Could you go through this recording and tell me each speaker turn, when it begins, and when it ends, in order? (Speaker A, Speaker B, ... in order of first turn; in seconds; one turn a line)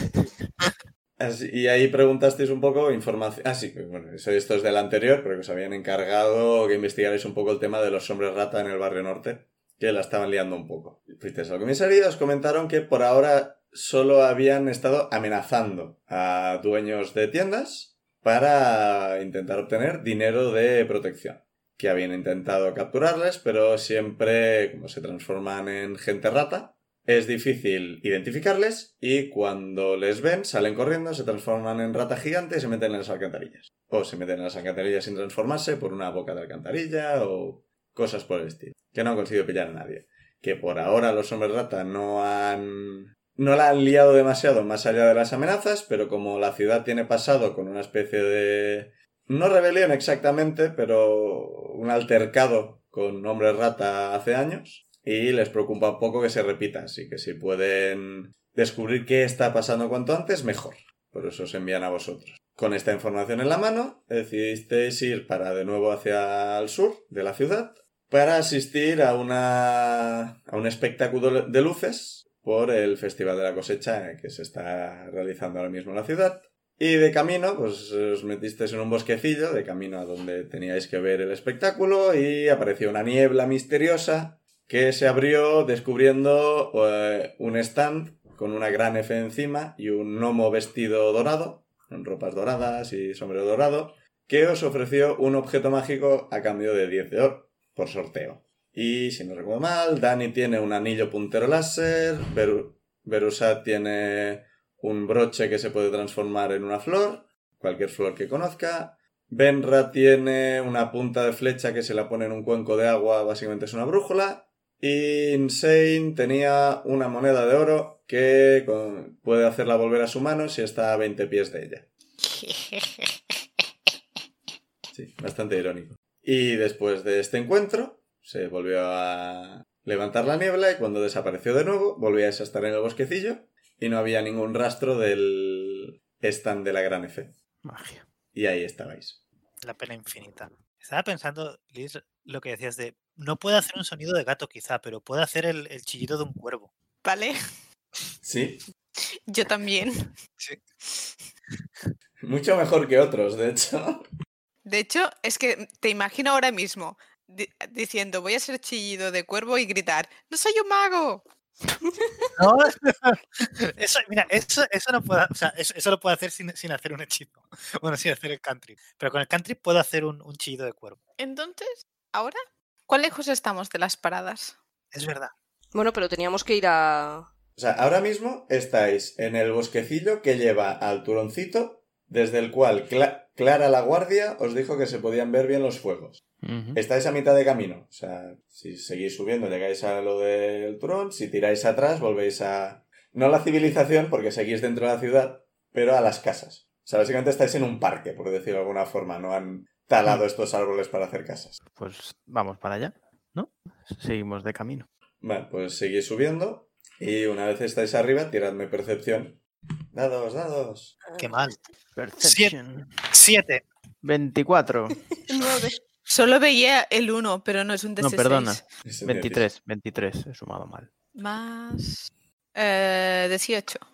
Speaker A: 1.2-121.8
Speaker B: 122.2-123.1
Speaker A: 124.9-137.3
Speaker C: 137.6-138.1
Speaker A: 138.3-139.2
Speaker D: 139.6-146.7
Speaker B: 147.0-147.4
Speaker A: 148.2-148.6
Speaker B: 149.3-150.1
Speaker A: 152.2-154.0
Speaker B: 154.7-161.2
Speaker E: 161.9-162.3
Speaker D: 162.4-171.0
Speaker B: 171.2-174.6
Speaker D: 174.9-175.3
Speaker E: 175.7-177.3
Speaker A: 177.6-186.2
Speaker C: 186.4-186.8
Speaker A: 186.7-201.6
Speaker C: 201.7-204.9
Speaker A: 205.2-209.4
Speaker A: 209.9-211.0
Speaker E: 211.1-211.5
Speaker D: 211.2-211.6
Speaker C: 212.0-213.0
Speaker D: 212.2-212.6
Speaker D: 213.1-213.6
Speaker C: 214.0-215.0
Speaker E: 215.3-215.8
Speaker B: 216.1-218.6
Speaker C: 218.0-220.9
Speaker A: 218.8-219.5
Speaker B: 221.2-223.8